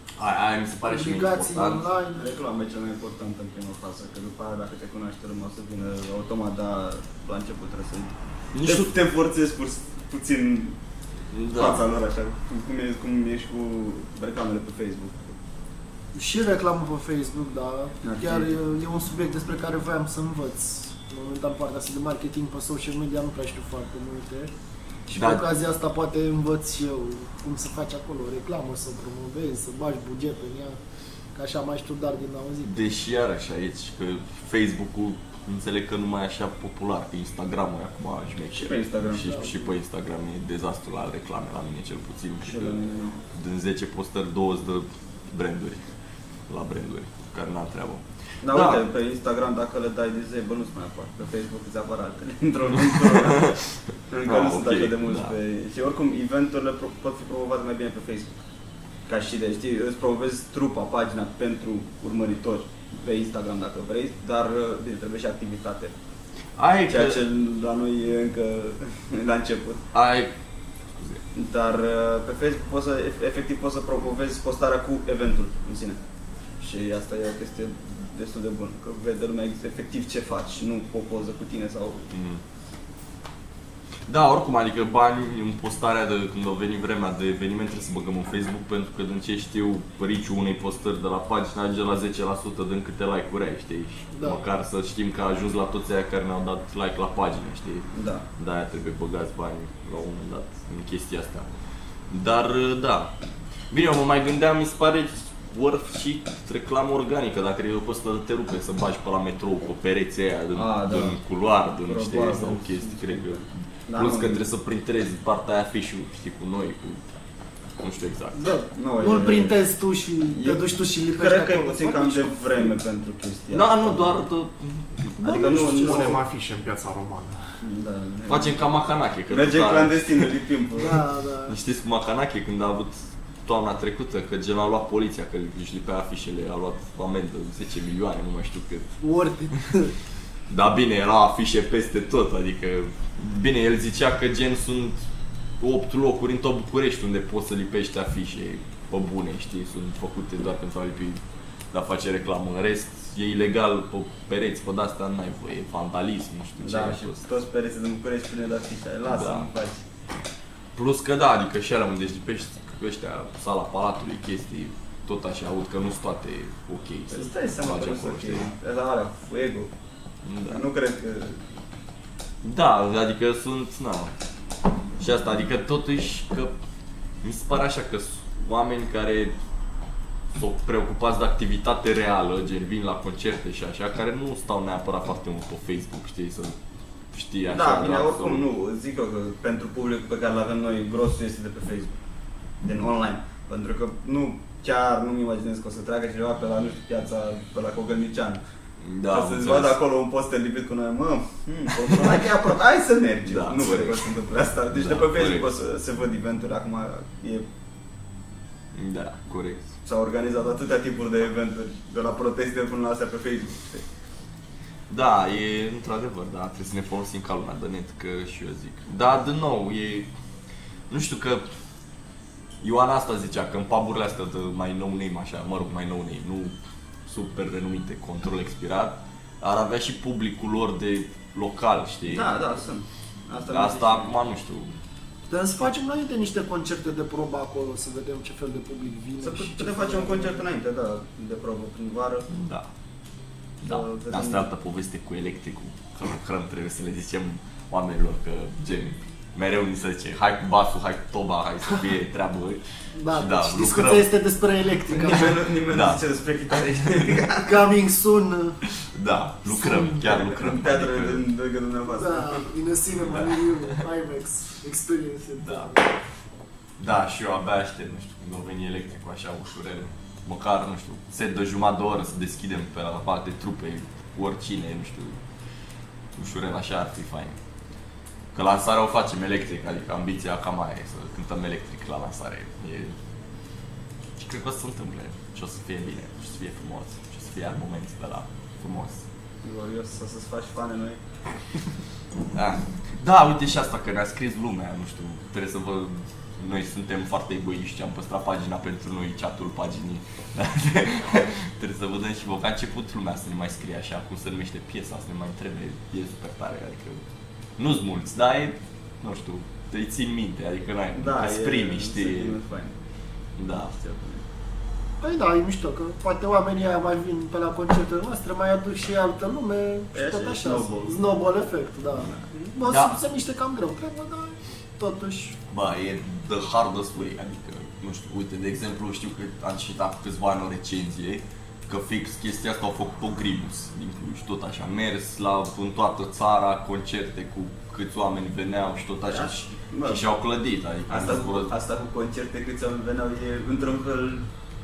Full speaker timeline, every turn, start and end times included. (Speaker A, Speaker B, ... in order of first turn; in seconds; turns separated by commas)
Speaker A: 0.2-1.9, Speaker B: 0.9-2.4, Speaker C: 2.1-10.8, Speaker A: 8.5-8.9, Speaker A: 11.3-11.9, Speaker C: 11.5-15.3, Speaker B: 16.1-24.5, Speaker C: 18.0-18.5, Speaker B: 25.1-30.8, Speaker A: 25.1-25.5, Speaker B: 31.3-32.8, Speaker A: 32.6-45.9, Speaker C: 38.6-39.5, Speaker B: 39.2-39.7, Speaker C: 42.4-43.2, Speaker A: 46.5-48.8, Speaker C: 48.4-53.5, Speaker A: 52.8-53.7, Speaker C: 54.1-58.3, Speaker A: 54.2-55.4, Speaker C: 59.1-65.9, Speaker A: 66.6-67.2, Speaker C: 66.9-69.8, Speaker A: 69.9-70.3, Speaker A: 71.0-71.2, Speaker C: 71.3-76.0, Speaker C: 76.6-82.1, Speaker A: 82.1-82.4, Speaker A: 84.1-101.5, Speaker B: 94.1-94.4, Speaker C: 97.9-98.2, Speaker A: 102.1-103.1, Speaker A: 103.7-117.0, Speaker C: 110.5-111.2, Speaker C: 111.8-114.4, Speaker A: 117.8-118.4, Speaker B: 118.3-122.7, Speaker C: 118.8-119.5, Speaker C: 120.3-124.2, Speaker A: 123.5-126.0, Speaker C: 125.2-126.2, Speaker B: 125.2-125.8, Speaker D: 125.4-127.6, Speaker C: 127.6-128.6, Speaker A: 128.3-130.3, Speaker C: 129.3-131.0, Speaker B: 130.8-131.6, Speaker A: 131.5-139.0, Speaker B: 139.0-139.9, Speaker A: 140.5-145.0, Speaker A: 145.6-157.2, Speaker C: 156.6-159.8, Speaker A: 159.1-159.5, Speaker A: 160.8-168.5, Speaker C: 167.1-169.7, Speaker A: 170.2-170.6, Speaker C: 170.5-171.4, Speaker A: 172.4-174.1, Speaker A: 175.0-176.6, Speaker A: 177.2-179.3, Speaker A: 180.3-186.6, Speaker A: 187.1-188.5, Speaker C: 187.5-192.0, Speaker C: 192.6-198.4, Speaker A: 198.8-199.8, Speaker C: 199.1-207.5, Speaker A: 201.8-202.2, Speaker A: 203.2-204.1, Speaker A: 204.7-205.6, Speaker A: 208.7-209.7, Speaker C: 209.8-213.8, Speaker A: 214.9-220.1, Speaker A: 220.9-221.4, Speaker A: 222.6-232.4, Speaker C: 232.1-234.2, Speaker A: 233.5-234.8, Speaker B: 235.3-240.4, Speaker C: 239.2-242.3, Speaker A: 242.3-242.7, Speaker A: 243.6-254.1, Speaker C: 243.6-244.5, Speaker B: 252.9-255.4, Speaker C: 254.9-257.6, Speaker A: 255.7-256.0, Speaker A: 256.8-257.2, Speaker B: 257.4-258.6, Speaker A: 258.8-261.2, Speaker B: 259.4-260.0, Speaker C: 260.0-262.5, Speaker B: 261.9-265.9, Speaker A: 263.1-263.8, Speaker A: 265.4-265.8, Speaker A: 266.8-275.2, Speaker A: 276.1-277.4, Speaker A: 278.3-282.9, Speaker A: 284.2-289.1, Speaker C: 289.4-291.0, Speaker A: 292.3-307.0, Speaker A: 307.6-312.4, Speaker C: 310.9-312.8, Speaker A: 313.4-313.8, Speaker C: 313.8-314.2, Speaker B: 315.0-325.4, Speaker C: 319.9-321.0, Speaker A: 321.9-323.0, Speaker A: 325.5-341.6, Speaker C: 339.1-340.0, Speaker C: 340.9-344.2